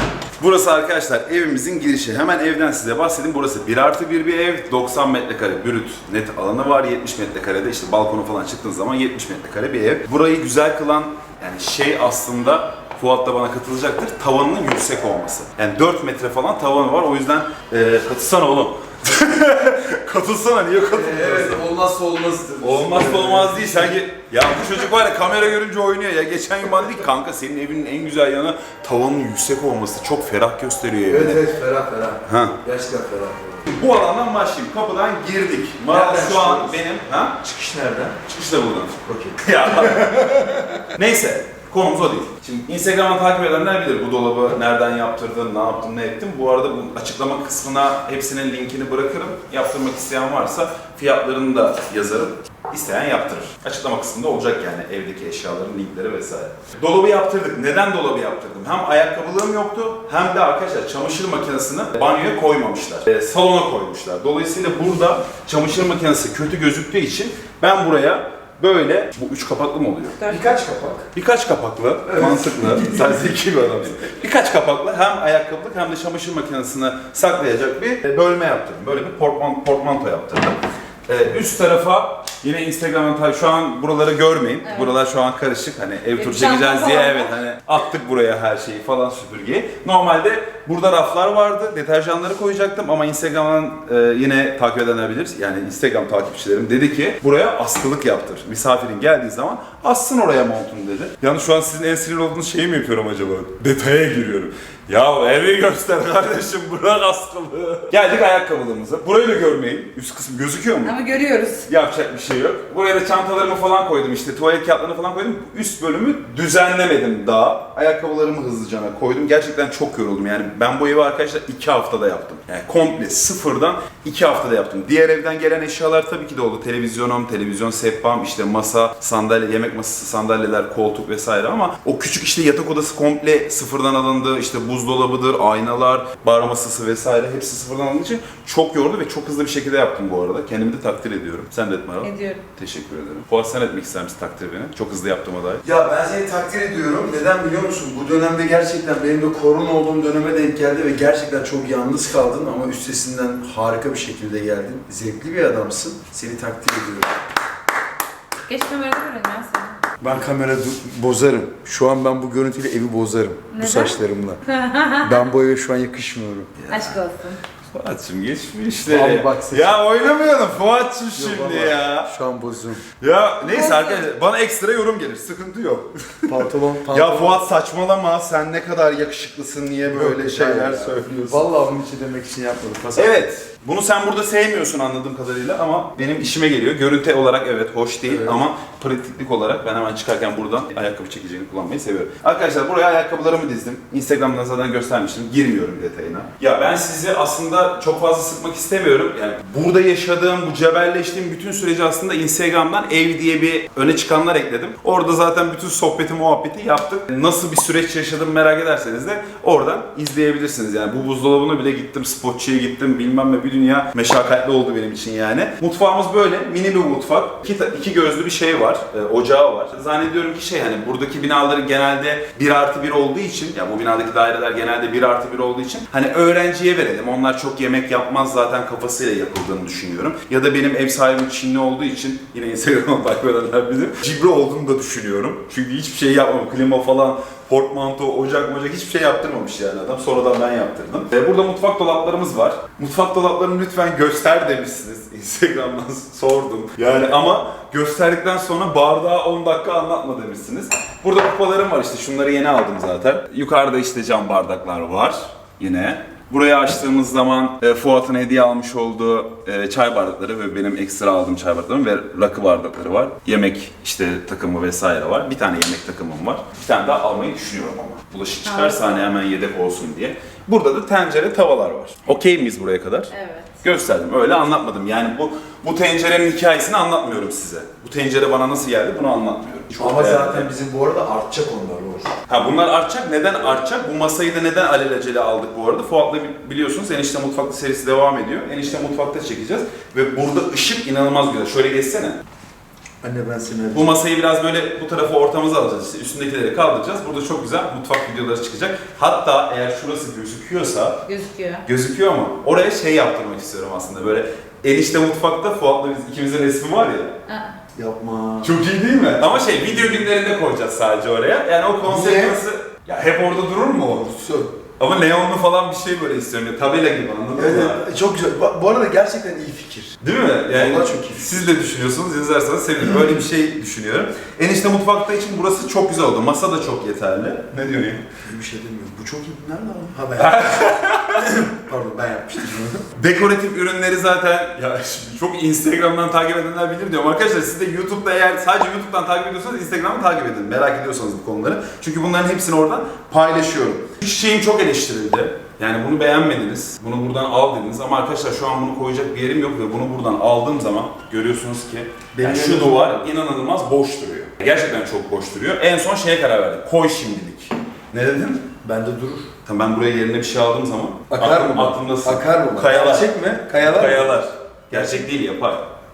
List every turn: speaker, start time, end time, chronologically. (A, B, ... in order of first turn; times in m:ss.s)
0:00.4-0:21.6 A
0:20.9-0:24.0 B
0:22.6-0:31.4 A
0:31.0-0:33.7 B
0:32.3-0:32.6 A
0:33.7-0:37.4 A
0:35.9-0:36.8 B
0:37.4-0:38.2 B
0:38.2-1:10.2 A
0:39.0-0:40.9 B
1:10.2-1:10.4 C
1:10.2-1:11.1 B
1:11.1-1:51.0 A
1:12.1-1:13.1 B
1:24.6-1:24.9 C
1:26.2-1:27.3 C
1:50.8-1:51.7 C
1:51.7-2:25.6 A
2:22.0-2:22.4 C
2:25.6-2:37.1 B
2:38.5-2:39.8 C
2:40.0-2:44.4 B
2:43.5-2:45.2 C
2:45.0-2:46.5 B
2:46.6-2:47.0 A
2:46.7-2:47.4 C
2:47.7-2:52.1 A
2:48.8-2:49.8 B
2:51.2-2:52.8 B
2:53.0-2:56.3 A
2:53.4-2:54.0 C
2:56.3-2:57.4 B
2:56.9-3:01.5 A
2:59.8-3:03.2 B
3:03.0-4:33.1 A
3:08.1-3:08.4 B
4:28.5-4:29.0 C
4:33.1-4:33.5 C
4:33.6-4:40.5 A
4:39.7-4:42.2 B
4:42.3-4:52.2 A
4:53.0-4:54.0 B
4:53.7-5:01.0 A
5:01.1-5:01.6 C
5:01.7-5:07.1 A
5:07.3-5:07.5 C
5:07.8-5:10.0 B
5:08.4-5:14.1 A
5:11.8-5:12.4 B
5:13.9-5:14.6 B
5:14.8-5:17.9 A
5:17.4-5:20.0 B
5:20.0-5:28.1 A
5:20.5-5:21.5 B
5:28.2-5:32.9 B
5:30.2-5:31.3 A
5:33.0-5:58.5 A
5:52.1-5:53.1 B
5:58.6-5:59.3 B
5:59.5-6:05.6 A
6:01.1-6:04.2 B
6:04.7-6:05.0 B